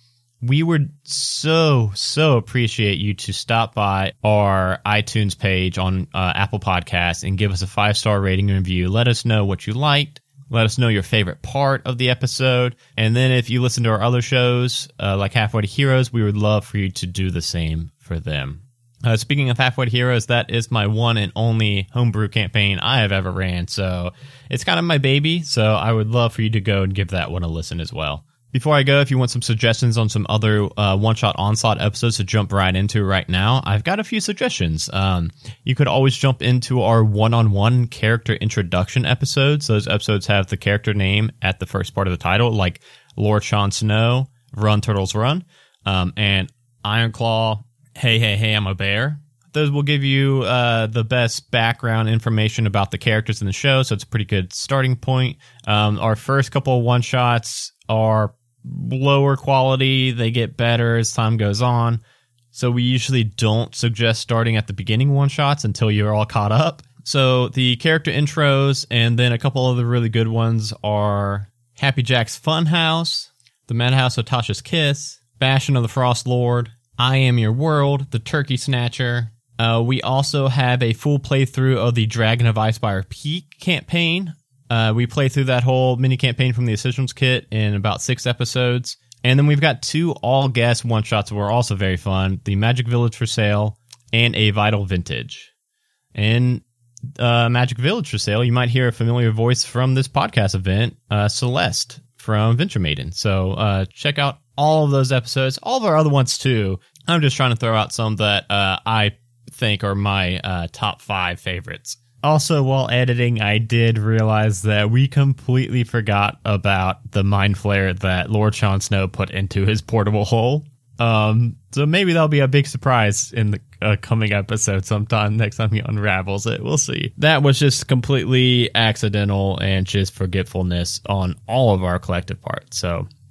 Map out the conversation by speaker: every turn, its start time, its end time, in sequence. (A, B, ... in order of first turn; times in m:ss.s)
0:00.4-1:02.0 A
1:02.5-1:35.5 A
1:36.1-1:36.6 A
1:37.2-2:13.1 A